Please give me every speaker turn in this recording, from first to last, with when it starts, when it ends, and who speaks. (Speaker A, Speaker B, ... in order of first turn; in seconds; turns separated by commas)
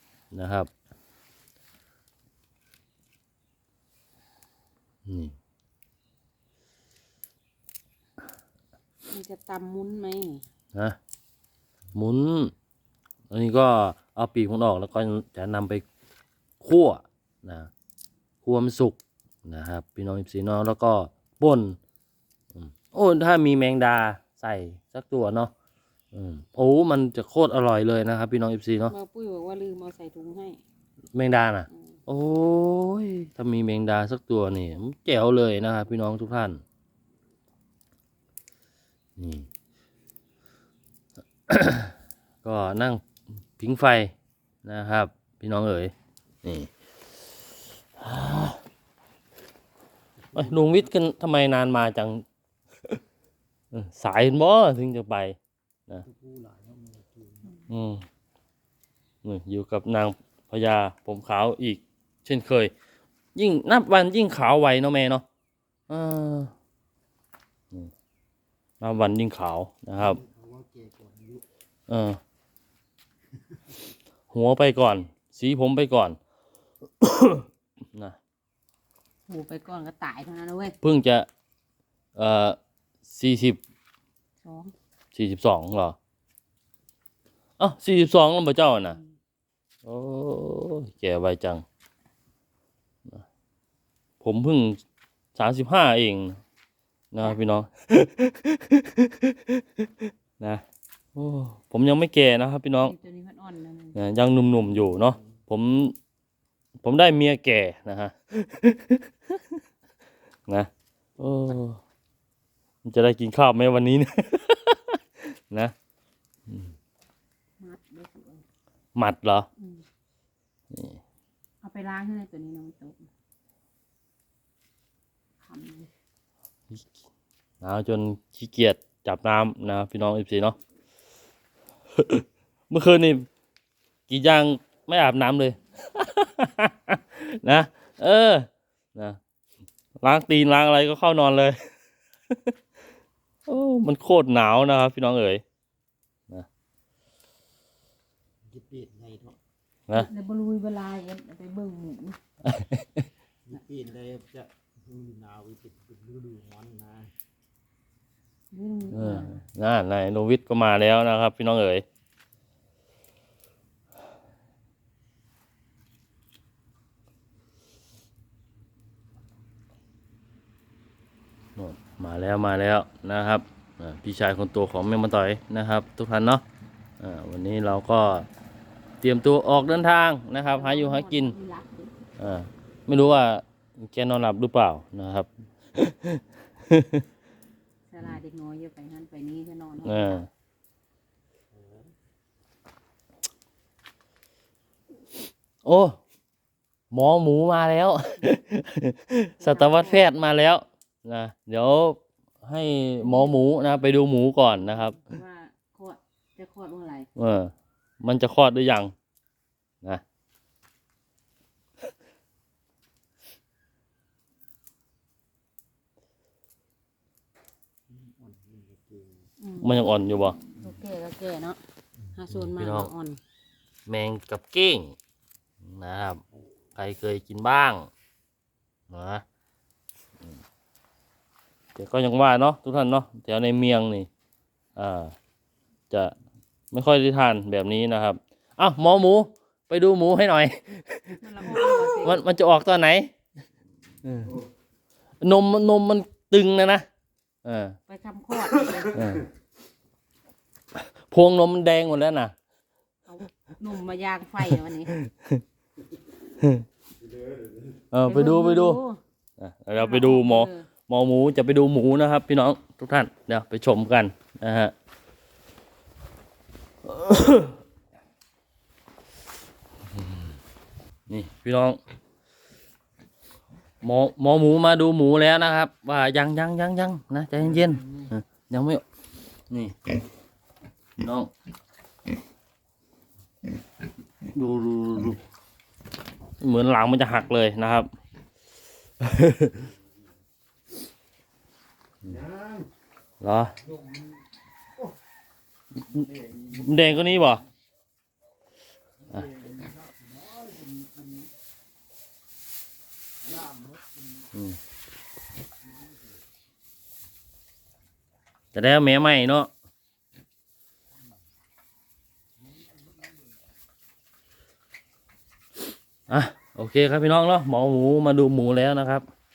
Speaker A: 0.3-0.7, Speaker A: 5.1-5.3, Speaker B: 9.1-10.4, Speaker A: 11.9-12.5, Speaker A: 13.3-15.8, Speaker A: 16.6-17.7, Speaker A: 18.4-21.8, Speaker A: 22.5-25.5, Speaker A: 26.1-28.9, Speaker B: 28.9-30.6, Speaker A: 31.1-36.6, Speaker A: 39.2-39.5, Speaker A: 41.5-43.0, Speaker A: 43.6-45.9, Speaker A: 46.4-46.7, Speaker A: 48.0-48.6, Speaker C: 50.3-50.9, Speaker A: 50.4-52.2, Speaker A: 53.7-55.4, Speaker C: 56.0-57.6, Speaker A: 57.7-58.0, Speaker A: 59.2-62.7, Speaker A: 63.4-65.2, Speaker A: 65.9-66.5, Speaker A: 68.8-70.2, Speaker C: 70.0-71.4, Speaker A: 71.9-72.2, Speaker A: 74.3-76.2, Speaker A: 77.0-78.2, Speaker B: 79.3-80.8, Speaker A: 80.8-81.3, Speaker A: 82.2-82.6, Speaker A: 83.1-83.6, Speaker B: 84.4-84.7, Speaker A: 85.1-86.0, Speaker A: 87.6-89.0, Speaker A: 89.8-91.6, Speaker A: 94.2-94.8, Speaker A: 95.4-96.4, Speaker A: 97.1-100.6, Speaker A: 101.2-103.0, Speaker B: 102.8-104.0, Speaker A: 104.0-106.0, Speaker A: 106.8-109.4, Speaker A: 110.5-111.8, Speaker A: 112.8-115.7, Speaker A: 116.5-116.7, Speaker B: 117.6-118.4, Speaker A: 119.0-119.5, Speaker B: 119.6-119.8, Speaker A: 120.7-121.0, Speaker B: 121.6-123.1, Speaker B: 125.4-125.9, Speaker A: 127.6-130.6, Speaker A: 132.0-133.3, Speaker A: 134.1-139.2, Speaker A: 140.0-141.6, Speaker A: 143.5-145.4, Speaker C: 148.5-149.4, Speaker B: 149.9-152.2, Speaker A: 152.4-153.1, Speaker C: 153.5-157.1, Speaker B: 158.5-159.4, Speaker A: 158.9-161.8, Speaker A: 171.6-176.4, Speaker A: 177.0-178.3, Speaker A: 179.0-181.3, Speaker B: 180.6-181.9, Speaker A: 182.2-187.1, Speaker B: 187.9-190.3, Speaker A: 189.8-190.3, Speaker C: 191.6-191.9, Speaker A: 195.7-196.0, Speaker A: 196.9-205.1, Speaker B: 199.4-200.0, Speaker B: 203.0-203.3, Speaker B: 204.7-207.1, Speaker A: 207.2-208.9, Speaker C: 217.9-219.3, Speaker B: 219.4-221.6, Speaker A: 219.6-220.4, Speaker B: 222.1-223.2, Speaker A: 222.5-222.9, Speaker A: 223.9-225.0, Speaker A: 225.6-226.2, Speaker A: 226.8-227.9, Speaker A: 228.9-229.2, Speaker A: 231.8-234.1, Speaker A: 234.8-235.1, Speaker A: 236.7-243.1, Speaker B: 241.2-242.2, Speaker A: 244.1-244.4, Speaker A: 245.2-246.8, Speaker A: 247.4-247.8, Speaker B: 247.9-249.1, Speaker A: 248.9-249.3, Speaker A: 250.8-252.3, Speaker B: 253.1-254.9, Speaker A: 254.9-255.4, Speaker A: 257.9-258.8, Speaker B: 258.0-259.0, Speaker A: 259.4-264.7, Speaker B: 259.8-260.7, Speaker A: 266.8-267.6, Speaker A: 270.0-270.3, Speaker A: 271.1-271.8, Speaker A: 273.8-278.8, Speaker A: 279.5-279.8, Speaker A: 281.0-281.3, Speaker A: 284.2-285.2, Speaker A: 286.4-287.9, Speaker A: 289.0-289.7, Speaker A: 293.2-293.5, Speaker A: 295.9-297.4, Speaker C: 299.3-301.1, Speaker C: 303.4-303.7, Speaker A: 308.5-309.5, Speaker A: 316.1-319.1